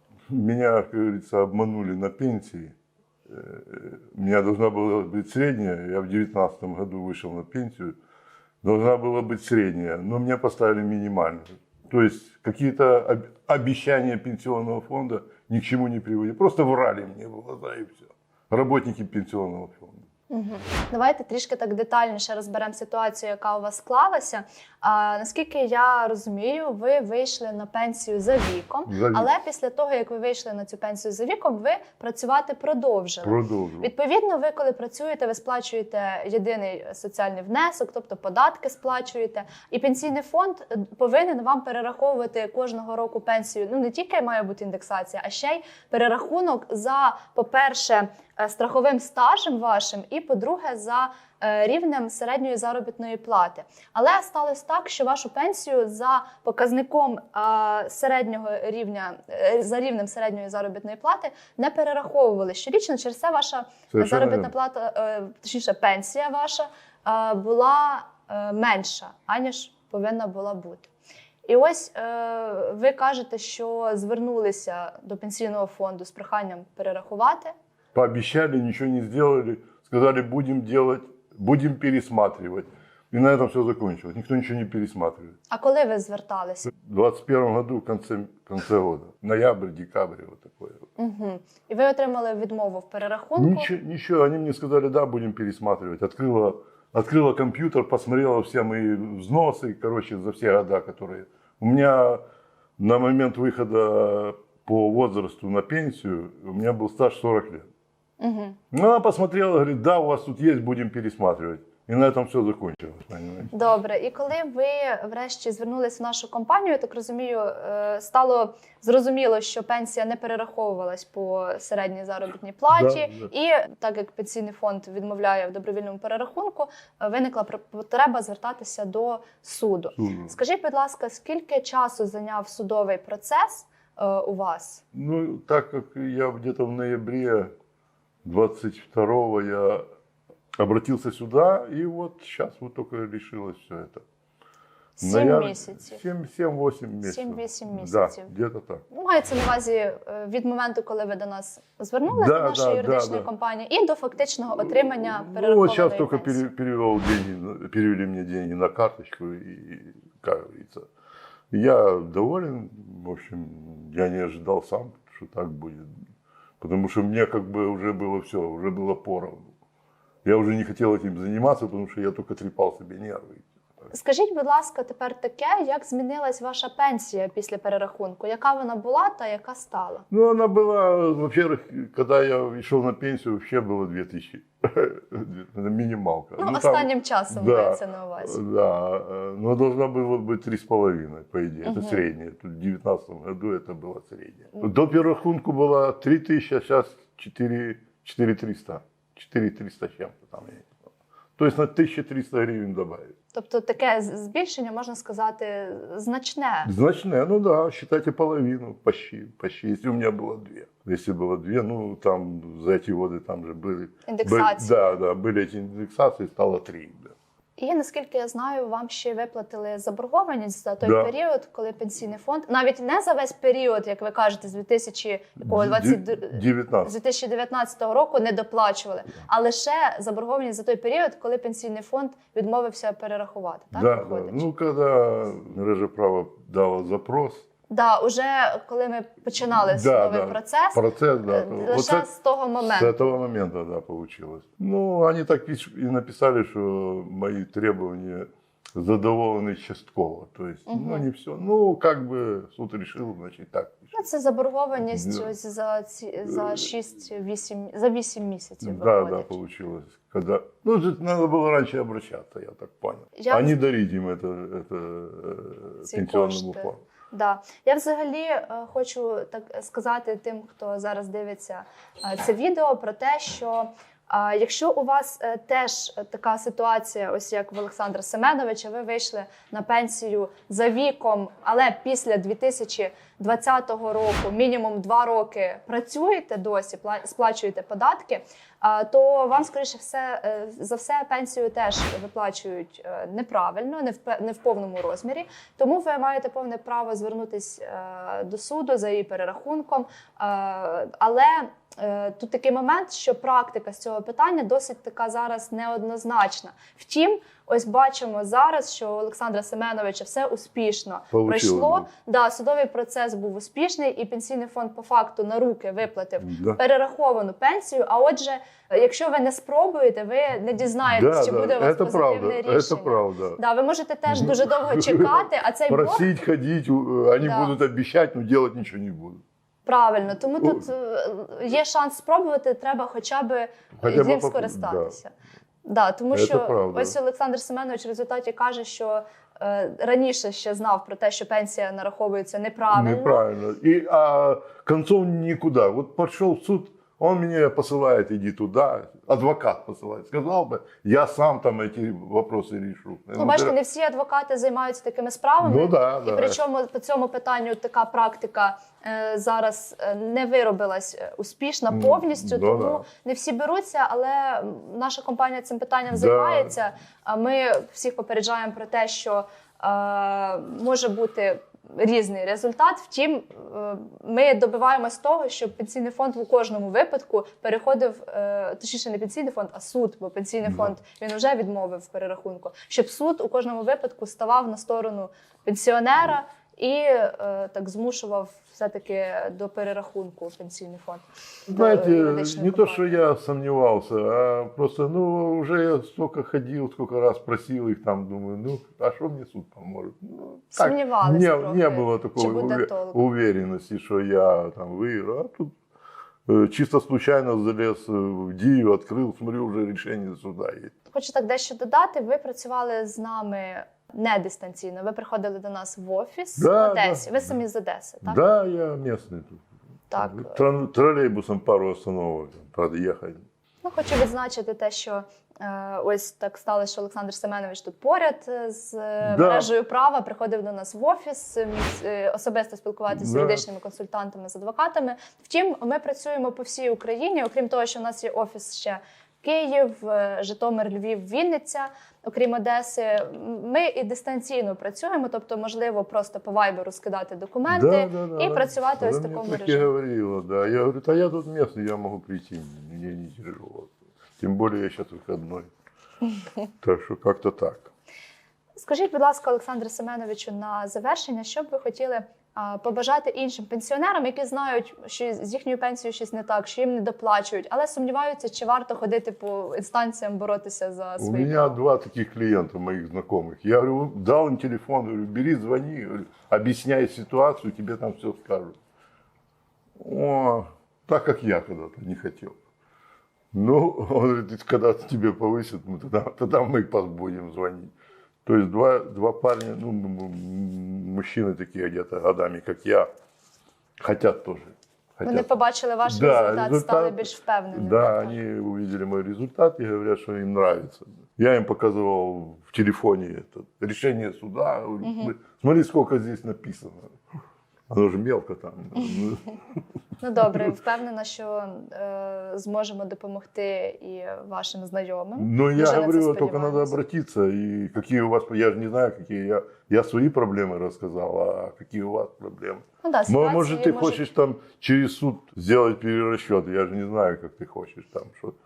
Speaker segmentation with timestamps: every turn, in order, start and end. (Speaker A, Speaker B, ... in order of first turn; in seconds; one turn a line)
Speaker A: 0.3-2.7
Speaker A: 3.3-7.9
Speaker A: 8.6-20.0
Speaker B: 20.3-70.9
Speaker A: 28.9-29.3
Speaker A: 33.2-33.9
Speaker A: 63.9-64.5
Speaker B: 71.5-77.5
Speaker A: 77.9-85.3
Speaker B: 85.5-86.7
Speaker A: 86.8-90.8
Speaker B: 91.0-93.7
Speaker A: 93.4-102.2
Speaker A: 102.8-107.7
Speaker B: 108.2-108.6
Speaker A: 108.7-113.5
Speaker B: 113.5-134.8
Speaker A: 122.7-123.3
Speaker A: 129.9-130.3
Speaker A: 134.9-137.5
Speaker A: 138.2-139.8
Speaker A: 140.6-144.0
Speaker B: 145.0-146.0
Speaker A: 145.0-148.8
Speaker B: 147.0-148.3
Speaker B: 148.9-156.5
Speaker A: 152.1-153.3
Speaker A: 154.7-160.8
Speaker A: 161.5-165.9
Speaker A: 166.6-169.5
Speaker A: 170.2-173.5
Speaker B: 173.9-180.1
Speaker A: 180.1-200.7
Speaker B: 186.4-188.4
Speaker B: 191.6-192.0
Speaker A: 201.4-203.1
Speaker B: 203.3-206.7
Speaker A: 206.6-217.1
Speaker B: 214.1-214.9
Speaker B: 217.6-234.5
Speaker A: 220.8-221.1
Speaker A: 225.4-226.9
Speaker A: 233.7-237.4
Speaker B: 237.7-243.1
Speaker A: 239.5-242.1
Speaker A: 242.6-253.9
Speaker B: 250.7-251.1
Speaker B: 253.9-259.3
Speaker A: 254.8-255.3
Speaker A: 256.3-256.6
Speaker A: 258.6-266.8
Speaker B: 263.1-263.6
Speaker B: 265.8-326.1
Speaker A: 311.1-311.9
Speaker A: 316.2-316.6
Speaker A: 320.9-323.4
Speaker A: 324.1-329.2
Speaker B: 327.2-327.5
Speaker B: 329.6-335.1
Speaker A: 330.4-330.7
Speaker A: 333.8-335.0
Speaker B: 335.6-343.2
Speaker A: 336.1-336.9
Speaker A: 342.7-353.5
Speaker B: 353.2-393.0
Speaker A: 355.4-356.4
Speaker A: 361.7-362.8
Speaker A: 365.9-366.5
Speaker A: 380.4-380.7
Speaker A: 391.5-405.5
Speaker B: 400.5-403.0
Speaker A: 406.3-410.7
Speaker B: 410.9-418.2
Speaker A: 416.4-417.2
Speaker A: 418.0-419.4
Speaker B: 419.9-420.4
Speaker A: 419.9-423.2
Speaker B: 423.6-449.7
Speaker A: 429.0-429.5
Speaker A: 432.9-433.4
Speaker A: 447.5-455.5
Speaker A: 456.6-457.7
Speaker B: 458.6-471.6
Speaker A: 471.0-478.6
Speaker A: 479.8-482.4
Speaker A: 483.3-487.7
Speaker A: 488.2-492.9
Speaker A: 493.8-495.3
Speaker B: 495.0-498.1
Speaker A: 495.8-506.9
Speaker B: 504.8-505.1
Speaker A: 507.7-509.3
Speaker B: 510.0-516.8
Speaker A: 515.2-528.3
Speaker B: 522.8-524.0